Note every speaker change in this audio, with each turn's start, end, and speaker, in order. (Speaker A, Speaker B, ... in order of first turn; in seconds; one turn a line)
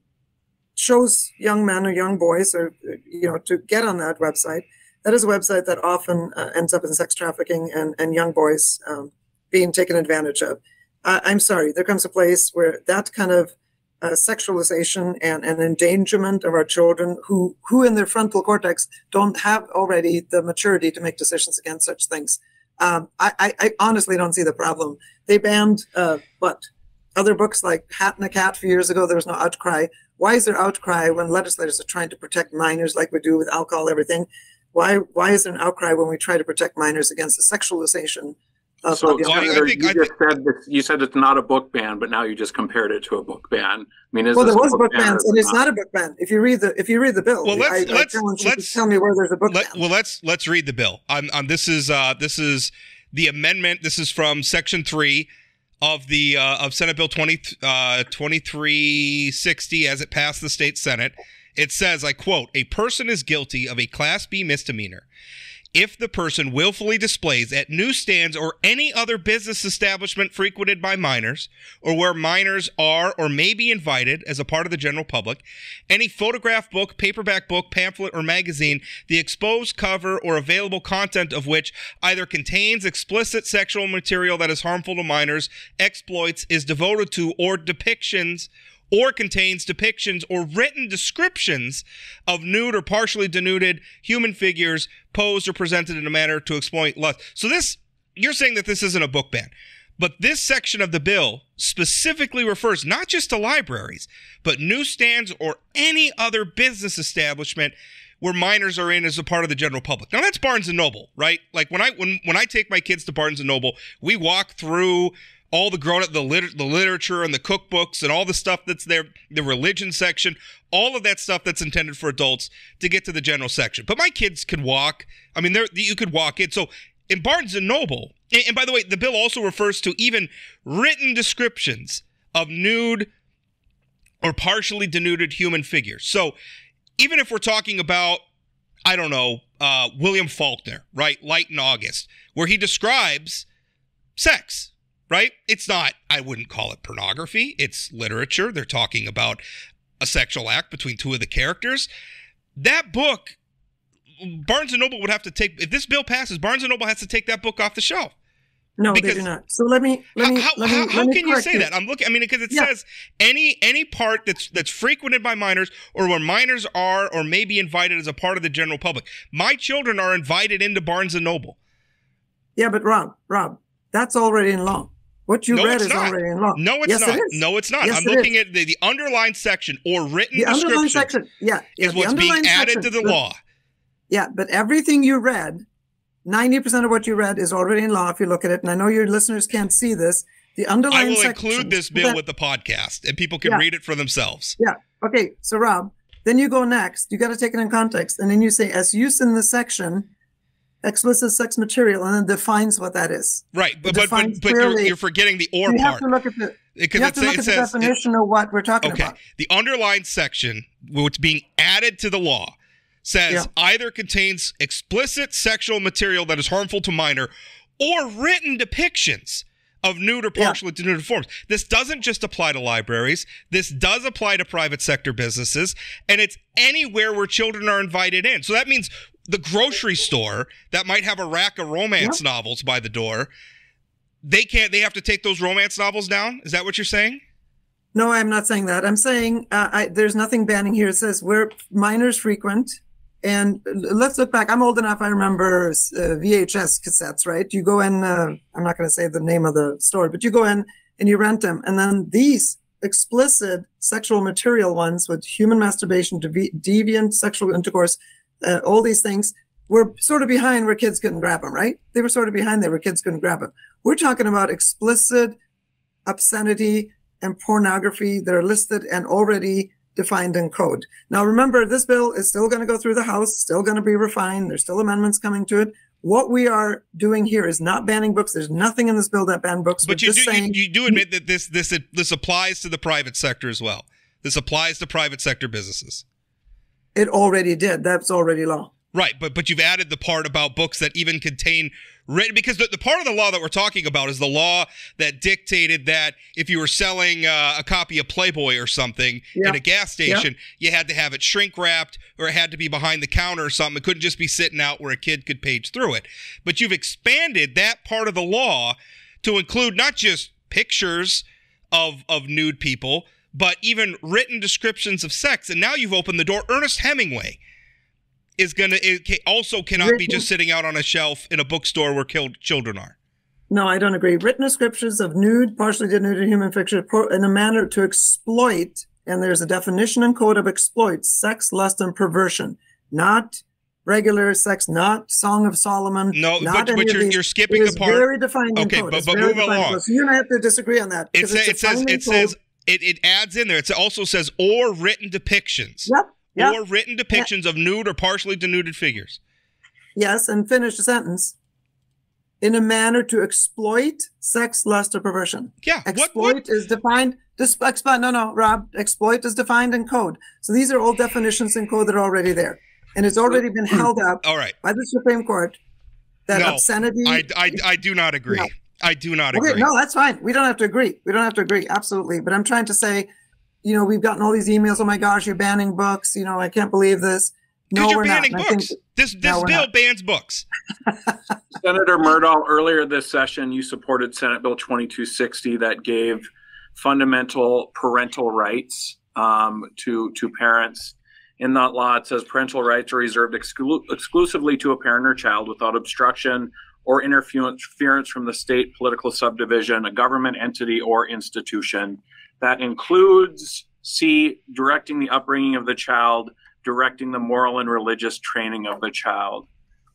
Speaker A: 0.8-39.7
Speaker B: 39.0-45.6
Speaker C: 39.2-40.1
Speaker A: 44.4-49.8
Speaker C: 47.4-48.8
Speaker C: 49.5-55.3
Speaker C: 55.8-65.1
Speaker C: 65.7-133.1
Speaker C: 134.2-136.4
Speaker C: 137.0-138.2
Speaker C: 138.8-143.5
Speaker C: 144.2-149.4
Speaker C: 150.0-151.9
Speaker C: 152.6-153.3
Speaker C: 154.2-158.1
Speaker A: 158.8-161.7
Speaker C: 158.9-159.2
Speaker C: 160.2-171.6
Speaker A: 172.6-178.3
Speaker C: 175.5-181.1
Speaker A: 180.4-183.2
Speaker C: 181.8-183.4
Speaker A: 184.1-185.6
Speaker A: 186.3-192.2
Speaker C: 190.9-194.6
Speaker A: 194.6-200.1
Speaker A: 200.8-205.0
Speaker C: 203.5-206.1
Speaker A: 205.7-209.2
Speaker C: 206.8-207.9
Speaker C: 208.8-233.3
Speaker C: 234.2-237.2
Speaker A: 237.9-265.4
Speaker A: 266.1-281.0
Speaker C: 279.8-286.0
Speaker A: 286.9-288.7
Speaker C: 288.9-317.4
Speaker A: 299.4-300.3
Speaker C: 318.4-322.9
Speaker A: 319.8-320.2
Speaker A: 323.5-342.3
Speaker C: 336.1-339.8
Speaker C: 341.1-349.2
Speaker A: 345.9-346.6
Speaker A: 350.0-351.4
Speaker A: 352.4-365.6
Speaker C: 355.6-356.4
Speaker C: 364.2-364.6
Speaker A: 366.3-367.6
Speaker C: 366.3-369.7
Speaker A: 369.3-373.1
Speaker A: 373.6-379.7
Speaker C: 377.7-380.5
Speaker B: 381.6-409.5